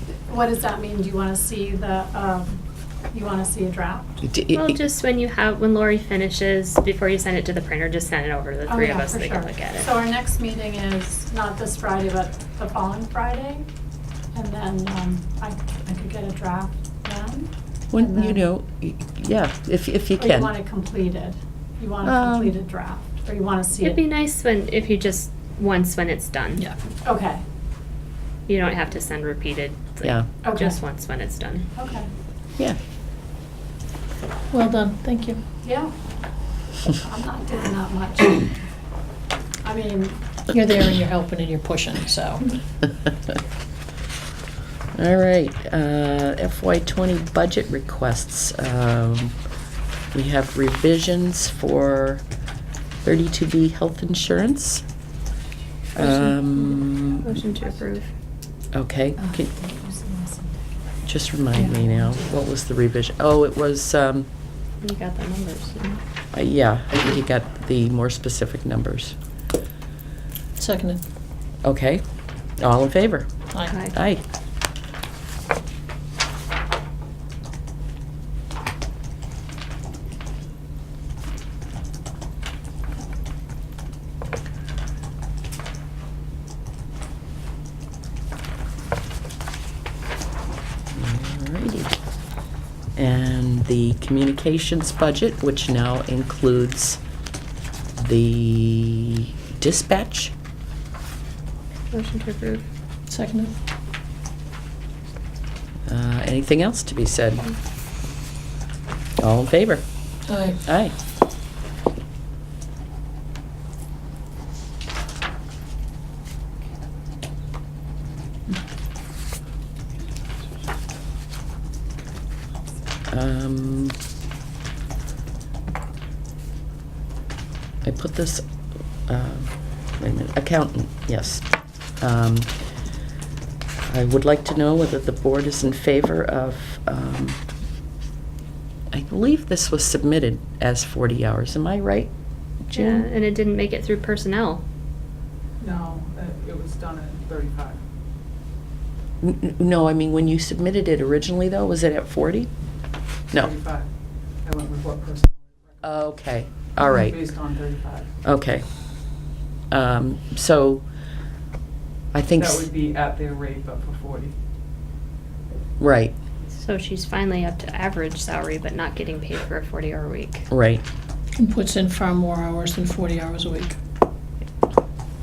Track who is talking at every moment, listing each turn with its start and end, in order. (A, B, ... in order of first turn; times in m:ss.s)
0:00.3-0:04.2 A
0:04.2-0:04.8 B
0:04.5-0:09.9 C
0:08.7-0:13.7 A
0:14.3-0:18.4 A
0:17.9-0:20.5 B
0:20.2-0:24.0 A
0:22.0-0:22.6 B
0:23.8-0:26.7 C
0:27.0-0:27.4 A
0:28.5-0:31.7 C
0:30.4-0:30.8 A
0:31.8-0:32.1 A
0:34.5-0:35.4 D
0:35.6-0:35.9 A
0:36.9-0:38.6 A
0:39.6-0:40.2 A
0:40.5-0:42.6 D
0:45.0-0:49.4 B
0:50.1-0:52.2 B
0:53.0-0:54.8 B
0:56.0-0:57.3 B
0:56.2-0:56.8 A
0:57.2-0:58.1 C
0:58.7-0:59.5 B
0:59.2-1:00.6 A
1:01.1-1:04.3 B
1:01.6-1:02.0 A
1:04.8-1:06.0 C
1:06.3-1:09.2 B
1:10.6-1:11.0 D
1:11.6-1:12.0 B
1:12.6-1:14.2 B
1:13.7-1:13.9 C
1:30.9-1:32.0 B
1:33.0-1:37.0 B
1:38.0-1:40.3 B
1:41.9-1:42.6 C
1:43.1-1:43.6 D
1:45.9-1:47.5 B
1:49.2-1:49.8 B
1:50.3-1:50.6 D
1:50.6-1:51.0 B
2:03.1-2:04.0 B
2:07.8-2:08.4 B
2:09.1-2:12.5 B
2:13.9-2:17.4 B
2:18.9-2:22.1 B
2:22.7-2:24.6 C
2:25.6-2:27.8 E
2:29.2-2:32.5 B
2:33.3-2:33.9 E
2:34.4-2:36.0 E
2:35.8-2:37.2 B
2:36.8-2:38.1 E
2:38.2-2:38.7 B
2:39.7-2:40.9 B
2:42.1-2:42.7 B
2:42.4-2:44.3 E
2:45.8-2:46.2 B
2:46.6-2:50.5 C
2:50.5-2:50.8 B
2:51.4-2:53.8 D